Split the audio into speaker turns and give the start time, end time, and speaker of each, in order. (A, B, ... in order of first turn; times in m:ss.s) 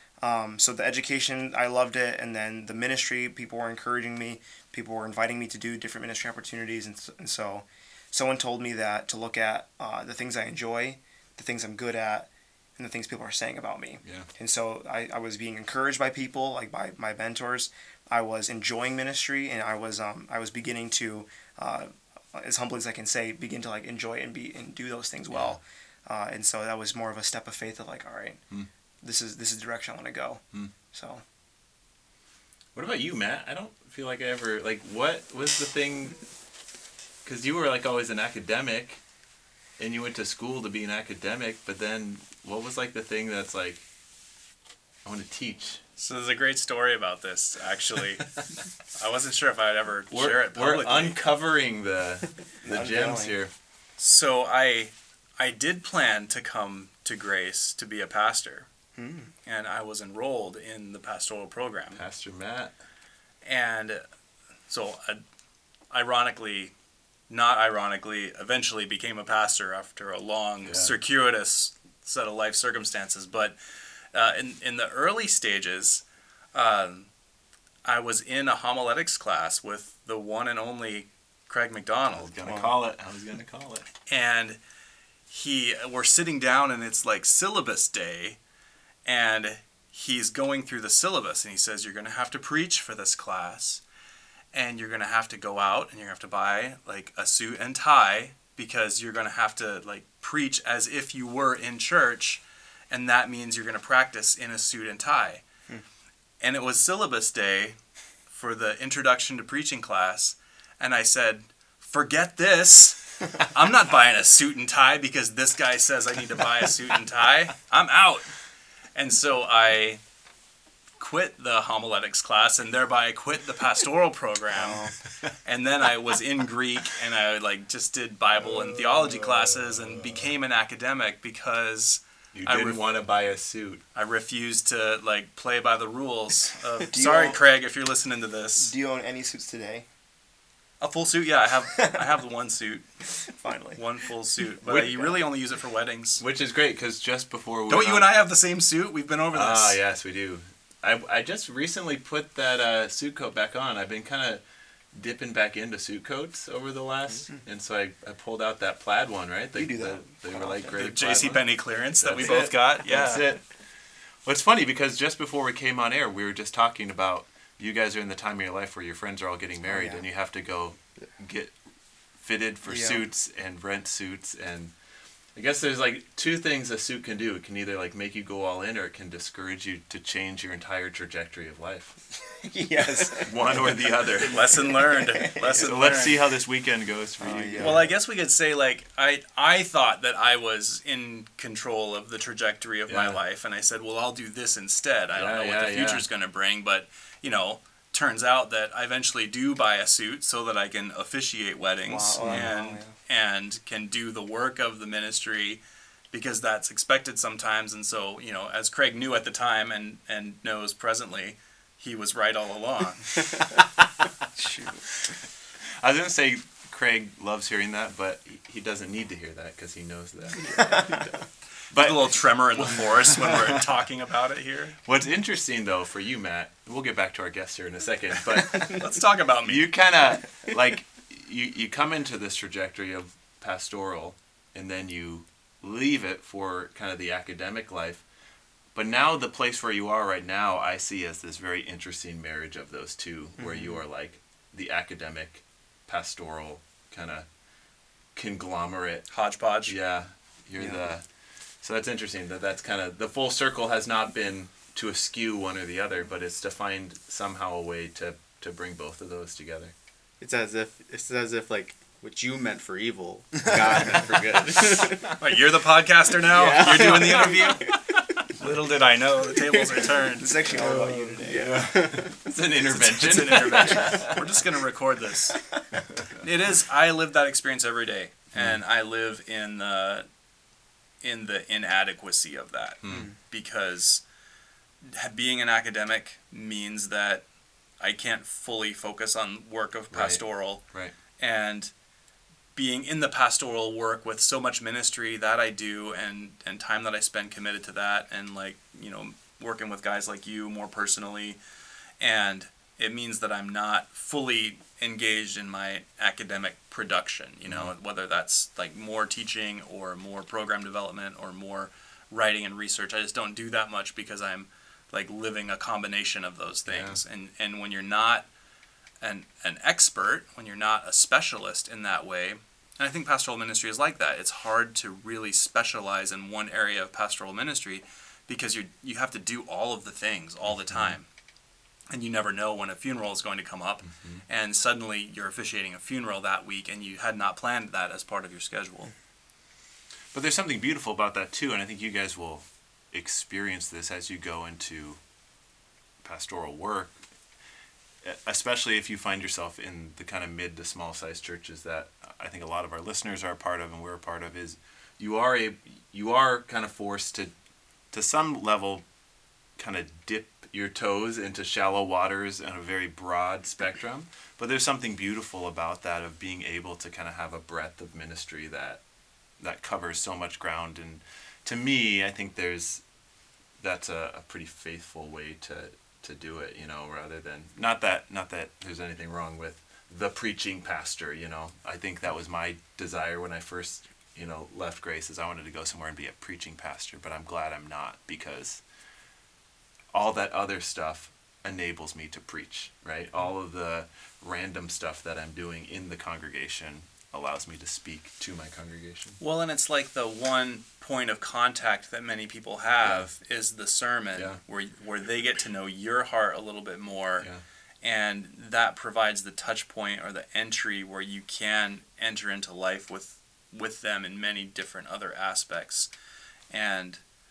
0:00.2-0:28.4 A
0:25.3-0:25.6 B
0:29.0-0:31.2 A
0:32.7-0:36.2 B
0:37.2-0:39.0 B
0:39.8-0:43.8 B
0:45.0-0:45.8 B
0:46.0-0:48.3 C
0:48.9-0:51.2 C
0:50.1-0:53.5 B
0:52.6-0:53.4 A
0:54.0-0:58.7 C
0:59.0-0:59.3 A
0:59.5-1:02.0 C
1:01.9-1:02.7 B
1:03.4-1:04.0 C
1:04.7-1:05.2 C
1:05.9-1:06.7 C
1:07.3-1:13.6 C
1:10.6-1:10.9 B
1:14.1-1:16.0 C
1:16.5-1:17.1 C
1:17.8-1:22.4 C
1:22.1-1:23.9 B
1:22.4-1:22.7 A
1:24.1-1:24.6 C
1:25.3-1:28.4 C
1:29.0-1:33.8 C
1:34.5-1:45.4 C
1:46.4-1:58.3 C
1:59.0-2:00.0 C
2:01.0-2:04.9 C
2:04.6-2:04.9 A
2:05.4-2:12.8 C
2:12.3-2:13.8 B
2:14.0-2:18.7 C
2:16.9-2:17.4 A
2:18.6-2:19.9 A
2:20.8-2:22.8 C
2:23.4-2:23.8 A
2:23.8-2:26.2 C
2:24.7-2:25.1 A
2:26.2-2:28.1 B
2:27.7-2:29.8 C
2:29.3-2:43.4 B
2:39.5-2:40.8 A
2:40.7-2:43.2 C
2:44.2-2:51.6 B
2:49.7-2:50.0 A
2:52.2-2:54.7 B
2:52.7-2:53.0 A
2:55.4-3:02.0 B
3:02.3-3:05.7 A
3:03.0-3:04.8 B
3:04.2-3:06.2 C
3:05.5-3:07.9 B
3:07.2-3:07.9 A
3:07.6-3:33.4 C
3:12.9-3:13.2 B
3:15.2-3:16.0 B
3:21.9-3:23.0 A
3:22.2-3:22.5 B
3:33.6-3:34.0 B
3:34.4-3:34.8 A
3:34.9-3:40.9 B
3:40.4-3:41.2 D
3:40.6-3:41.0 A
3:41.7-3:43.7 B
3:41.7-3:44.8 C
3:44.8-3:48.8 B
3:48.4-3:49.8 C
3:49.4-3:58.0 B
3:58.7-4:07.3 B
4:03.4-4:03.8 A
4:08.2-4:09.1 B
4:09.1-4:09.8 C
4:09.6-4:11.1 B
4:11.6-4:19.7 B
4:20.2-4:25.2 D
4:25.2-4:30.4 C
4:26.3-4:27.8 D
4:26.6-4:27.7 B
4:30.2-4:31.7 A
4:30.5-4:34.4 B
4:30.5-4:32.2 D
4:32.7-4:35.4 C
4:36.2-4:40.0 C
4:38.4-4:38.6 B
4:41.0-4:44.0 C
4:42.8-4:43.1 B
4:44.8-4:47.2 C
4:47.8-4:50.7 C
4:49.9-4:50.9 B
4:51.2-4:51.7 C
4:52.6-5:01.4 C
5:02.0-5:18.3 C
5:07.5-5:07.7 B
5:16.7-5:17.0 B
5:19.0-5:31.1 C
5:30.5-5:31.0 B
5:31.9-5:38.9 C
5:33.9-5:34.2 B
5:40.1-5:45.0 B
5:46.0-5:47.0 B
5:48.0-5:57.3 B
5:57.9-5:58.8 B
5:59.6-6:08.8 B
6:09.4-6:12.8 B
6:13.6-6:28.6 B
6:29.9-6:39.2 B
6:39.2-6:47.3 C
6:42.8-6:43.1 B
6:44.2-6:44.4 B
6:47.8-6:55.9 C
6:56.5-6:57.0 C